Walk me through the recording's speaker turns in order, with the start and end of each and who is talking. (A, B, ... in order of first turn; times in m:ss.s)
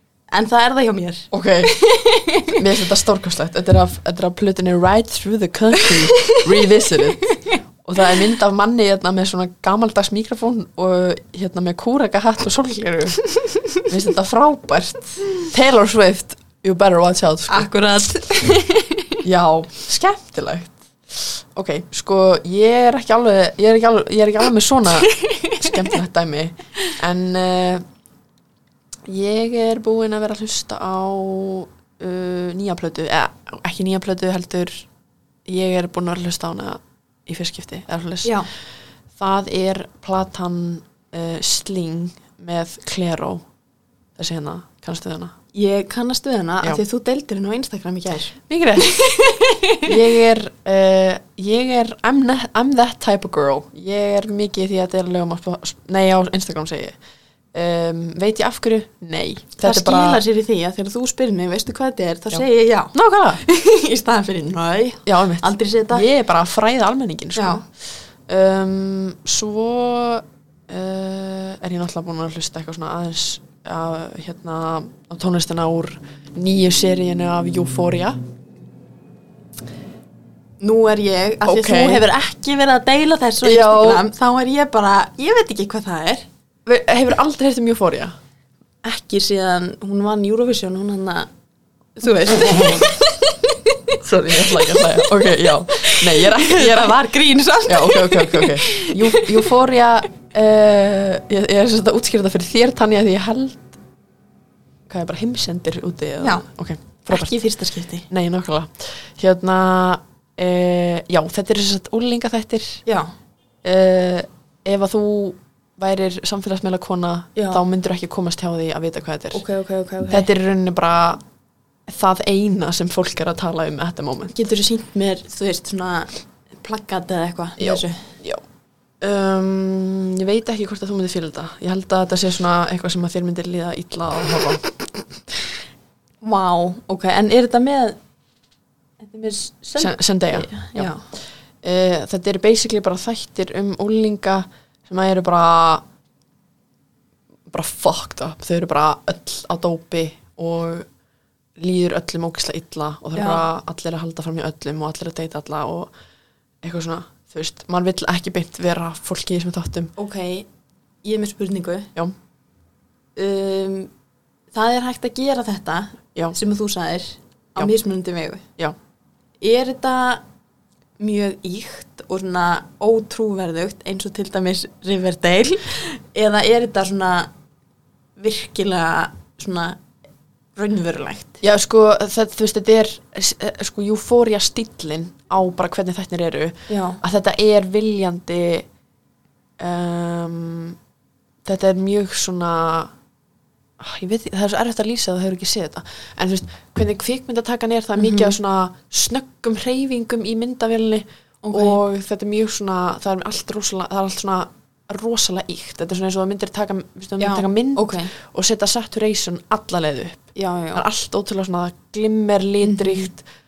0:00.3-0:02.6 A
0:01.3-0:01.7 B
0:02.5-0:13.2 B
0:13.4-0:13.6 A
0:13.8-0:17.7 B
0:17.5-0:19.2 A
0:19.2-0:27.8 B
0:25.1-0:25.7 A
0:29.1-0:34.9 B
0:35.4-0:38.4 B
0:38.2-0:38.5 A
0:39.2-0:43.4 B
0:44.2-0:45.3 B
0:45.5-0:49.9 A
0:48.5-0:49.0 B
0:49.8-0:57.0 B
0:57.5-1:00.2 B
0:59.6-1:06.1 A
1:02.3-1:03.4 B
1:05.0-1:07.6 B
1:07.4-1:07.6 A
1:08.3-1:18.2 B
1:20.6-1:26.3 A
1:21.4-1:22.0 B
1:23.4-1:24.1 B
1:26.6-1:28.2 B
1:28.8-1:31.3 A
1:32.0-1:35.0 A
1:32.4-1:32.8 B
1:34.0-1:37.0 B
1:35.7-1:39.5 A
1:37.6-1:43.8 B
1:44.9-1:47.3 B
1:46.2-1:46.5 A
1:47.1-1:48.1 A
1:48.1-1:52.8 B
1:52.8-1:53.1 A
1:53.6-1:59.4 B
1:57.3-1:57.6 A
1:59.3-2:00.3 A
2:00.1-2:01.2 B
2:01.9-2:04.3 B
2:04.3-2:08.1 A
2:07.6-2:08.4 B
2:09.0-2:14.6 B
2:16.2-2:18.0 A
2:19.0-2:21.0 A
2:19.8-2:20.9 B
2:21.6-2:25.8 B
2:27.5-2:30.9 B
2:31.6-2:35.9 B
2:33.2-2:33.5 A
2:36.6-2:39.9 B
2:40.0-2:40.5 A
2:41.0-2:41.9 A
2:43.2-2:43.9 A
2:44.5-2:48.4 A
2:49.4-2:50.2 A
2:51.0-2:57.3 A
2:58.2-2:59.8 A
3:00.6-3:01.4 A
3:01.4-3:08.7 B
3:06.7-3:07.0 A
3:09.6-3:10.8 B
3:11.4-3:12.9 B
3:13.8-3:33.2 B
3:18.0-3:18.3 A
3:21.4-3:21.8 A
3:27.2-3:28.1 A
3:30.3-3:30.8 A
3:32.6-3:33.1 A